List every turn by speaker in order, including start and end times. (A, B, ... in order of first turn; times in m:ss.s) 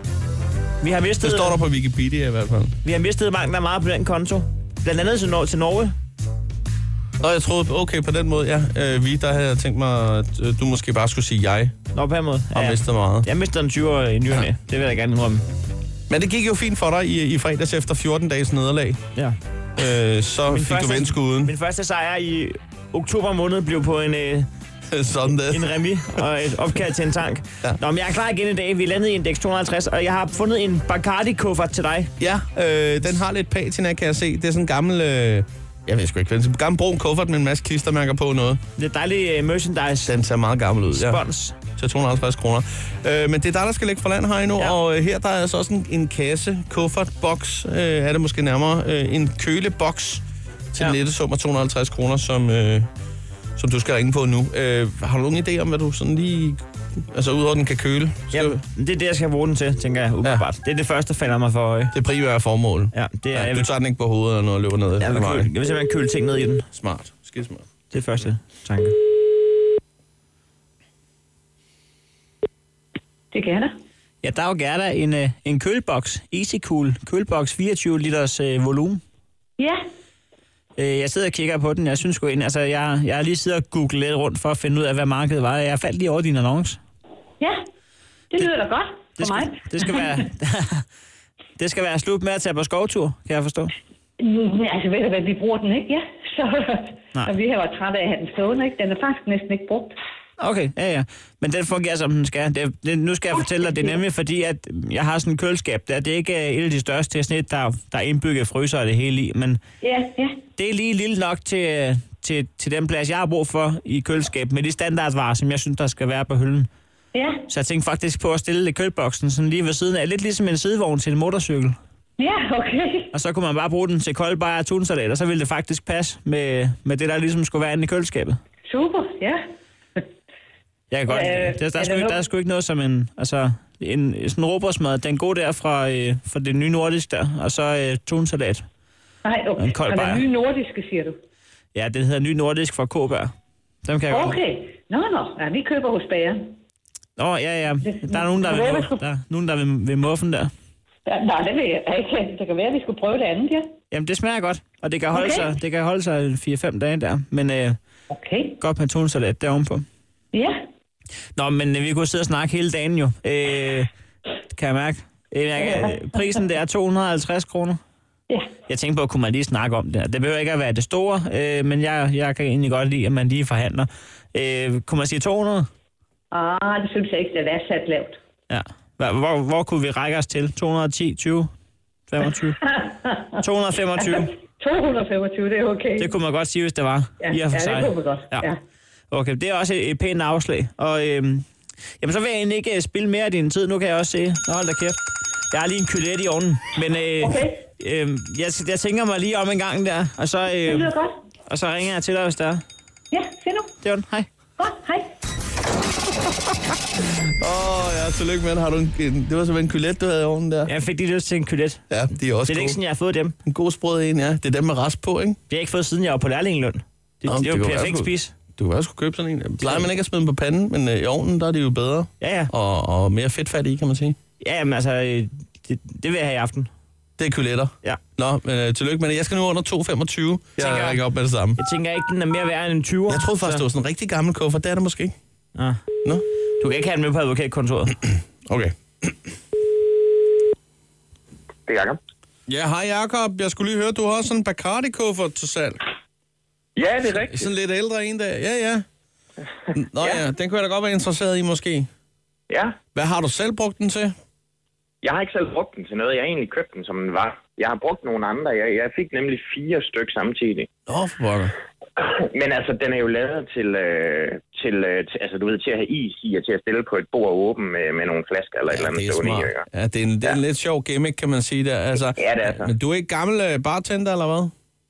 0:00.8-0:01.6 A
0:01.2-0:02.8 B
0:02.8-0:05.9 A
0:07.2-0:11.8 B
0:11.9-0:15.4 A
0:12.5-0:13.3 B
0:16.1-0:19.0 B
0:19.8-0:21.5 B
0:20.5-0:24.5 A
0:24.9-0:25.8 B
0:25.4-0:32.1 A
0:32.2-0:38.6 B
0:38.8-0:40.1 A
0:40.0-0:41.2 B
0:40.9-0:41.6 A
0:41.7-0:52.9 B
0:53.6-0:56.6 B
0:57.1-0:58.6 B
0:58.3-1:01.9 A
1:01.9-1:05.5 B
1:02.9-1:03.7 A
1:05.0-1:06.7 A
1:06.7-1:07.7 B
1:07.9-1:08.9 A
1:13.3-1:13.7 C
1:14.2-1:19.0 A
1:20.8-1:26.8 A
1:28.3-1:29.5 C
1:29.2-1:30.8 A
1:31.6-1:33.7 A
1:34.2-1:40.0 C
1:40.4-1:49.6 A
1:49.8-1:50.4 C
1:50.6-1:56.7 A
1:57.1-1:57.4 C
1:57.5-2:01.7 A
2:02.2-2:03.0 C
2:03.1-2:08.4 A
2:08.7-2:09.4 C
2:10.9-2:18.6 A
2:11.1-2:12.2 C
2:19.2-2:21.2 C
2:19.6-2:20.2 A
2:21.7-2:23.3 A
2:23.8-2:24.4 A
2:24.1-2:26.5 C
2:27.2-2:30.5 A
2:27.8-2:29.0 C
2:31.0-2:33.7 C
2:33.9-2:37.8 A
2:35.1-2:35.4 C
2:38.1-2:38.5 C
2:38.6-2:39.8 A
2:41.3-2:43.9 A
2:44.5-2:47.8 A
2:48.7-2:55.7 A
2:56.3-2:58.2 C
2:58.5-3:01.5 A
3:02.1-3:02.7 A
3:03.3-3:04.4 A
3:04.6-3:06.1 C
3:06.0-3:08.5 A
3:07.2-3:08.5 C
3:09.1-3:11.4 A
3:12.0-3:15.0 A
3:15.5-3:20.9 A
3:20.7-3:21.1 C
3:21.4-3:22.6 A
3:23.1-3:23.7 C
3:23.8-3:24.3 A
3:24.6-3:25.0 C
3:27.2-3:30.7 B
3:30.6-3:31.8 A
3:31.9-3:32.8 B
3:32.4-3:33.4 A
3:33.4-3:35.4 B
3:35.5-3:38.3 A
3:37.2-3:44.2 B
3:39.6-3:39.9 A
3:42.2-3:42.5 A
3:44.4-3:46.7 A
3:47.2-3:51.6 B
3:50.6-3:51.0 A
3:51.6-3:53.6 A
3:53.1-3:55.1 B
3:55.5-3:55.8 A
3:56.6-3:58.0 A
3:58.4-3:59.1 B
4:01.7-4:02.0 D
4:02.5-4:05.8 B
4:06.8-4:07.5 D
4:07.3-4:08.8 B
4:09.7-4:11.9 B
4:12.5-4:12.8 D
4:12.9-4:14.1 B
4:15.0-4:20.7 D
4:20.9-4:21.5 B
4:22.0-4:29.6 D
4:28.7-4:34.5 B
4:32.0-4:32.7 D